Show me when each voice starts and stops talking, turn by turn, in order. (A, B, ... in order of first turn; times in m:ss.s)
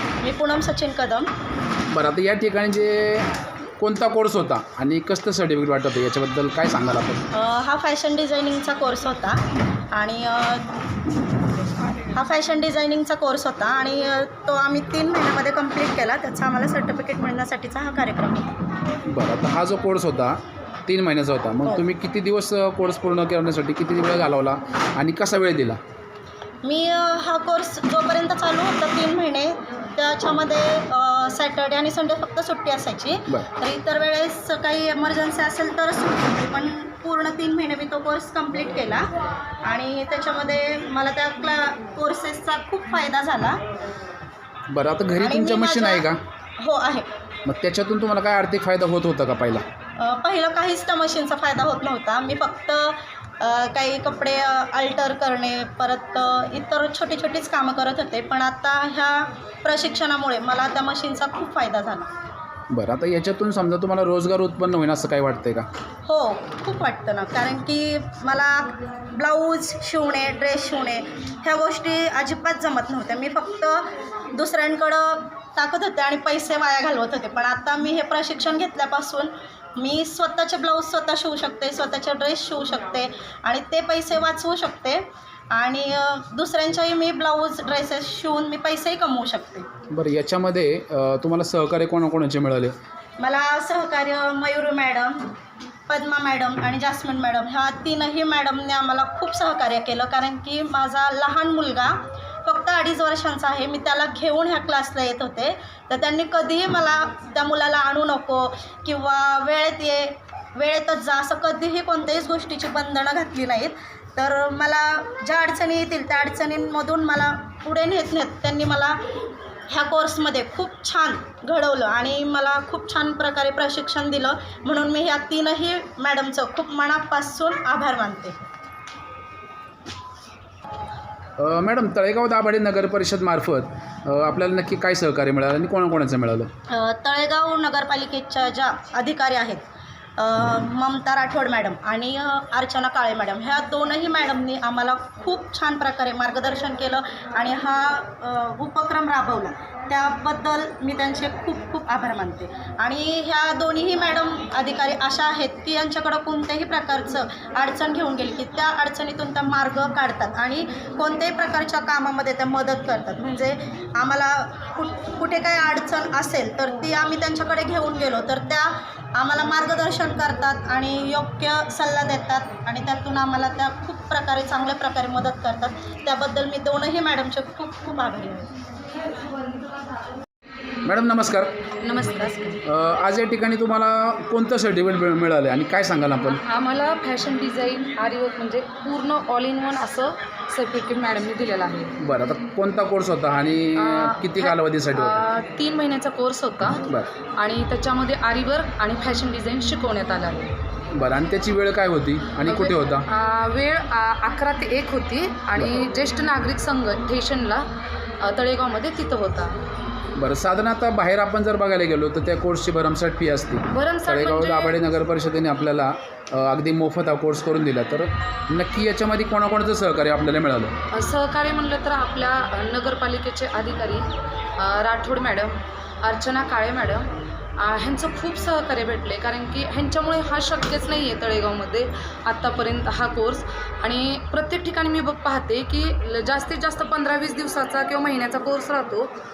0:00.2-0:01.3 A
0:01.9-0:07.3 B
0:07.3-0:10.7 A
0:12.1-0:18.5 A
0:19.1-0:25.8 B
0:26.6-0:39.1 A
0:39.6-0:43.6 A
0:44.7-0:46.2 B
0:45.2-0:46.1 A
0:46.6-0:47.1 A
0:47.5-0:49.6 B
0:50.0-1:02.1 A
1:02.7-1:05.7 B
1:06.1-1:29.7 A
1:29.9-1:32.8 B
1:33.2-1:35.2 A
1:35.9-1:59.0 A
1:59.7-2:08.4 A
2:11.4-2:16.5 B
2:16.7-2:19.6 A
2:20.2-2:58.5 A
3:00.8-3:01.5 B
3:01.8-3:02.6 C
3:02.6-3:06.4 B
3:06.2-3:12.0 C
3:12.0-3:15.2 B
3:13.8-3:16.9 C
3:17.4-3:20.5 C
3:20.9-3:23.1 B
3:22.5-3:27.7 C
3:25.6-3:25.9 B
3:28.2-3:29.6 C
3:30.2-3:40.8 B
3:33.7-3:34.9 C
3:40.9-3:59.1 C